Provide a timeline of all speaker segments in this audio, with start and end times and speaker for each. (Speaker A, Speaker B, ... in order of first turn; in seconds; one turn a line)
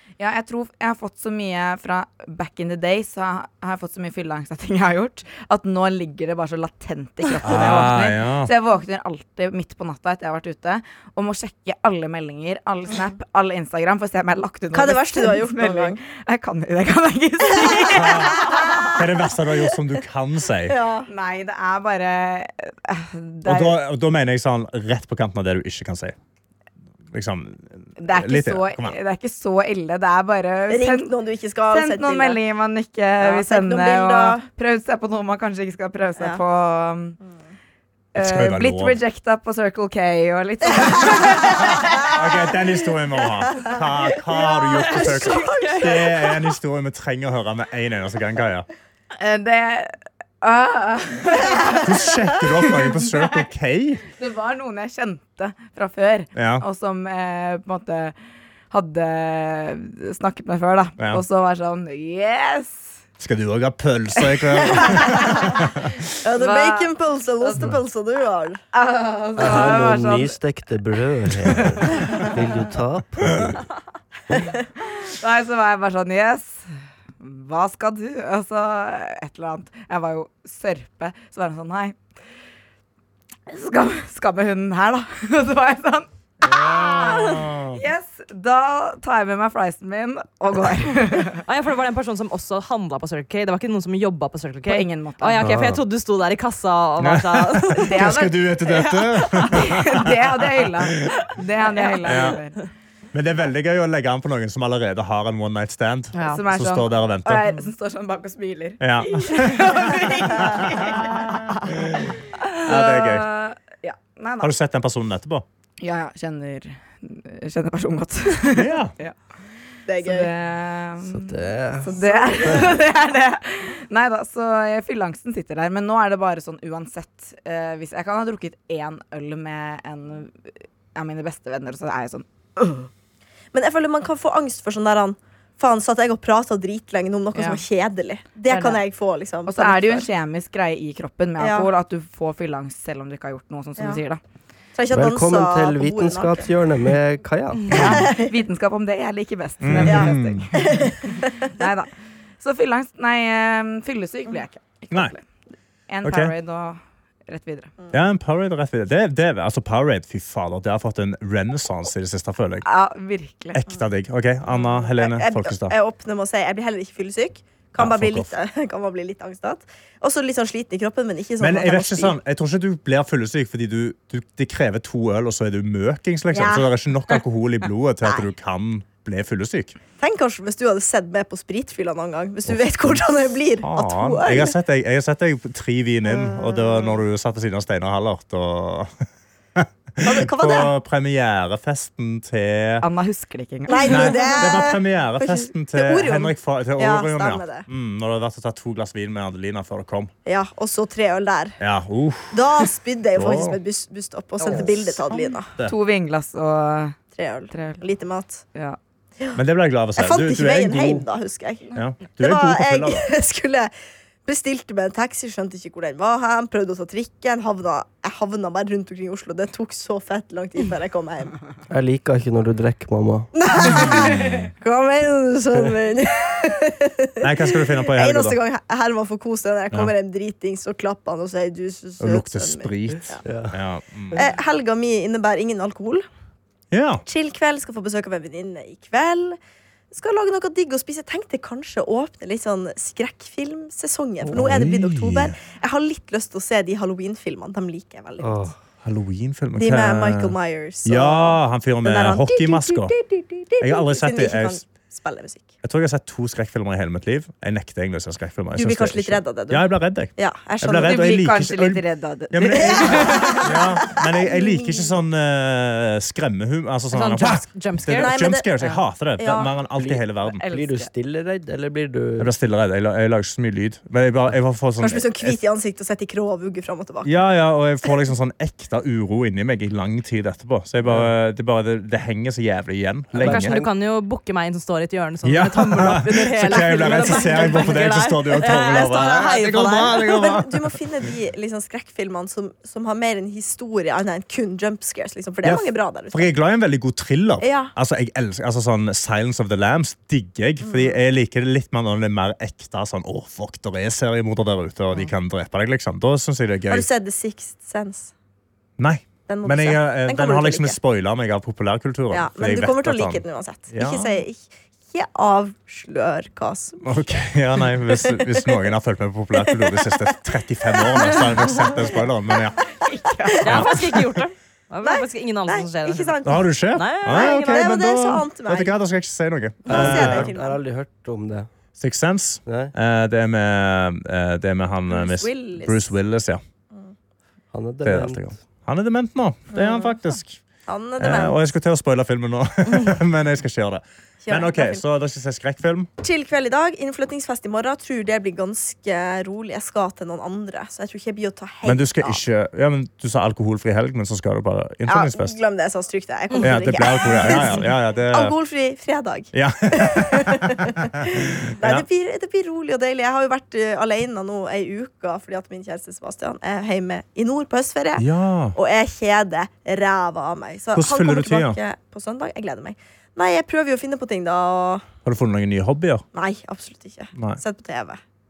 Speaker A: 0.2-18.9
Speaker B: 7.4-8.5
Speaker C: 14.7-16.0
Speaker C: 17.7-18.9
Speaker B: 17.9-20.8
Speaker C: 20.7-21.1
Speaker A: 21.1-23.8
Speaker B: 23.4-26.1
Speaker B: 27.1-28.9
Speaker A: 28.0-31.1
Speaker C: 30.7-32.4
Speaker A: 31.7-37.2
Speaker C: 33.2-34.4
Speaker A: 38.1-42.1
Speaker B: 38.1-39.0
Speaker B: 42.1-48.7
Speaker C: 44.4-46.0
Speaker A: 44.7-46.1
Speaker A: 49.2-52.1
Speaker B: 51.8-54.0
Speaker A: 52.6-53.4
Speaker A: 54.2-58.1
Speaker B: 56.3-56.6
Speaker A: 58.7-62.9
Speaker B: 63.2-66.2
Speaker C: 64.8-65.3
Speaker A: 64.8-65.6
Speaker C: 66.2-68.6
Speaker A: 66.4-67.7
Speaker A: 68.7-70.4
Speaker D: 69.4-73.5
Speaker A: 71.8-72.3
Speaker A: 75.0-76.6
Speaker A: 77.2-82.0
Speaker A: 83.5-91.4
Speaker B: 86.4-87.8
Speaker E: 91.4-98.1
Speaker A: 94.7-95.4
Speaker D: 95.4-95.8
Speaker B: 97.0-100.4
Speaker A: 97.8-102.6
Speaker B: 102.0-102.4
Speaker B: 103.1-107.5
Speaker E: 106.1-106.5
Speaker A: 106.3-114.5
Speaker B: 108.8-112.1
Speaker B: 112.6-113.3
Speaker B: 114.4-115.4
Speaker A: 115.8-119.2
Speaker B: 118.5-118.9
Speaker C: 119.9-120.3
Speaker A: 120.0-132.9
Speaker D: 121.0-122.7
Speaker C: 122.0-122.7
Speaker C: 133.5-140.1
Speaker A: 137.3-137.6
Speaker A: 138.5-138.8
Speaker A: 139.4-144.2
Speaker C: 141.4-141.7
Speaker C: 144.7-146.5
Speaker D: 144.9-148.0
Speaker A: 147.7-155.2
Speaker C: 147.7-148.3
Speaker B: 149.6-150.5
Speaker C: 149.9-151.5
Speaker A: 155.9-157.7
Speaker B: 156.0-156.3
Speaker B: 157.9-162.7
Speaker A: 162.6-163.6
Speaker B: 163.5-165.7
Speaker C: 164.5-172.2
Speaker B: 167.8-168.3
Speaker B: 171.4-179.8
Speaker C: 176.3-176.7
Speaker C: 180.0-184.5
Speaker B: 182.7-183.0
Speaker B: 183.6-188.9
Speaker C: 186.0-187.0
Speaker B: 189.6-192.8
Speaker C: 190.0-190.7
Speaker A: 192.8-194.2
Speaker C: 193.7-197.7
Speaker B: 193.8-200.1
Speaker C: 200.2-201.6
Speaker B: 201.6-202.5
Speaker C: 202.3-205.5
Speaker B: 203.1-203.6
Speaker A: 204.5-206.9
Speaker C: 207.1-208.4
Speaker A: 207.5-207.8
Speaker B: 209.3-211.0
Speaker C: 209.9-213.7
Speaker B: 211.7-213.1
Speaker C: 214.2-221.4
Speaker D: 221.7-223.3
Speaker C: 223.3-233.2
Speaker B: 223.7-224.5
Speaker B: 227.2-228.4
Speaker B: 232.0-234.2
Speaker D: 233.2-233.6
Speaker C: 234.1-236.0
Speaker B: 236.7-237.0
Speaker C: 237.1-239.4
Speaker C: 239.9-248.5
Speaker B: 244.3-245.4
Speaker D: 248.2-248.6
Speaker B: 248.8-252.9
Speaker C: 249.6-255.5
Speaker B: 253.6-254.6
Speaker B: 255.6-270.4
Speaker C: 258.5-261.0
Speaker A: 260.8-263.5
Speaker C: 262.7-265.0
Speaker E: 266.9-268.7
Speaker C: 267.9-268.5
Speaker C: 269.2-269.5
Speaker D: 269.7-272.3
Speaker A: 270.2-270.9
Speaker B: 272.2-275.4
Speaker C: 274.8-277.1
Speaker B: 277.0-283.6
Speaker D: 280.9-281.1
Speaker D: 283.2-283.6
Speaker E: 283.2-290.0
Speaker B: 285.2-290.8
Speaker C: 286.5-296.3
Speaker B: 295.4-306.9
Speaker C: 297.4-297.7
Speaker C: 300.6-301.0
Speaker C: 306.7-308.1
Speaker B: 308.8-314.2
Speaker C: 309.3-310.8
Speaker C: 312.1-317.0
Speaker B: 316.8-322.6
Speaker C: 317.6-318.7
Speaker C: 319.3-322.0
Speaker A: 322.8-323.6
Speaker C: 323.4-323.8
Speaker E: 323.4-326.2
Speaker B: 323.4-324.2
Speaker C: 324.8-328.7
Speaker B: 326.2-330.3
Speaker E: 326.7-327.7
Speaker C: 329.6-330.6
Speaker D: 329.7-331.5
Speaker B: 331.8-336.4
Speaker D: 332.4-332.7
Speaker C: 334.9-335.9
Speaker D: 337.5-338.3
Speaker B: 337.8-340.4
Speaker C: 339.5-339.9
Speaker C: 340.7-341.4
Speaker B: 341.0-345.9
Speaker C: 344.2-344.8
Speaker C: 346.0-352.2
Speaker B: 351.6-355.4
Speaker C: 354.9-374.8
Speaker E: 356.3-357.6
Speaker B: 356.4-358.4
Speaker B: 359.3-361.8
Speaker B: 368.0-368.6
Speaker B: 370.7-371.6
Speaker B: 375.0-376.0
Speaker C: 376.1-378.0
Speaker B: 377.1-377.4